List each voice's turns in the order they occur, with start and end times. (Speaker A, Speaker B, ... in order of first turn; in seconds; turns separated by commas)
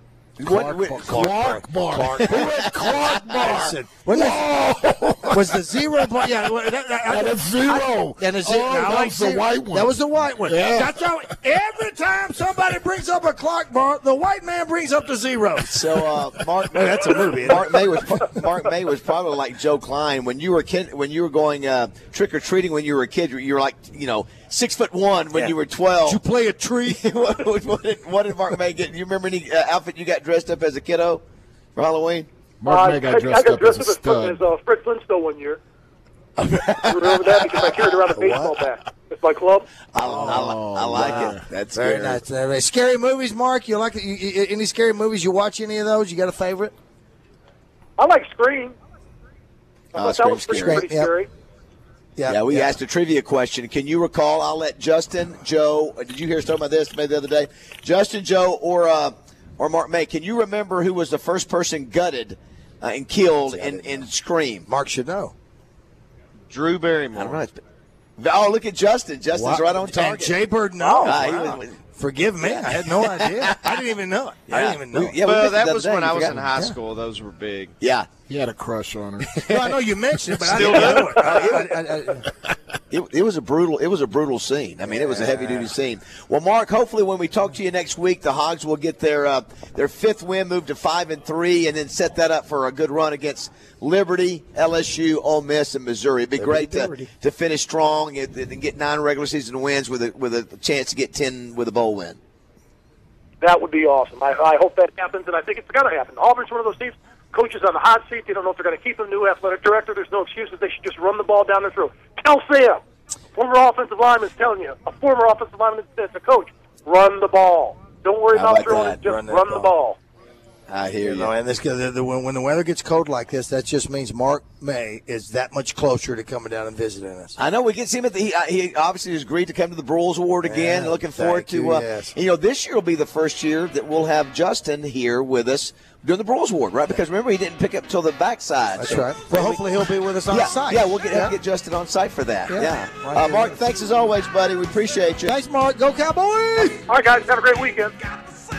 Speaker A: 0.4-1.6, Speaker B: 0.4-4.6, Speaker C: 1.1-5.6, Speaker A: 2.2-3.7, Speaker B: 5.3-18.4, Speaker C: 7.0-11.0, Speaker A: 15.7-26.2, Speaker B: 26.1-27.0, Speaker A: 26.8-31.2, Speaker A: 31.8-32.3, Speaker C: 32.6-34.4, Speaker D: 32.6-35.6, Speaker A: 36.4-38.1, Speaker D: 36.8-39.7, Speaker B: 38.1-38.5, Speaker A: 39.9-42.2, Speaker C: 40.0-41.4, Speaker B: 40.0-46.7, Speaker D: 48.0-48.7, Speaker D: 49.9-51.3, Speaker A: 49.9-50.8, Speaker B: 50.6-51.1, Speaker B: 52.1-52.7, Speaker A: 52.3-64.7, Speaker B: 63.5-64.0, Speaker B: 64.7-65.3, Speaker E: 66.5-67.4, Speaker A: 67.1-67.6, Speaker A: 68.2-70.3, Speaker B: 69.3-75.2, Speaker D: 70.8-71.1, Speaker A: 71.0-71.8, Speaker A: 72.4-73.8, Speaker A: 74.5-76.4, Speaker E: 75.2-77.7, Speaker A: 77.8-78.1, Speaker C: 78.3-79.8, Speaker A: 79.5-79.8, Speaker B: 79.5-82.2, Speaker E: 80.4-81.5, Speaker C: 80.5-80.8, Speaker A: 80.5-81.7, Speaker A: 82.9-102.2, Speaker B: 85.0-85.6, Speaker B: 96.4-97.1, Speaker D: 103.4-112.8, Speaker D: 113.3-120.0, Speaker A: 118.3-119.0, Speaker B: 119.0-119.7, Speaker A: 120.7-121.3, Speaker B: 121.0-127.3, Speaker A: 127.4-139.6, Speaker B: 130.4-132.1, Speaker B: 138.8-141.3, Speaker A: 140.3-145.3, Speaker B: 142.5-143.6, Speaker B: 145.2-146.8, Speaker D: 146.9-147.9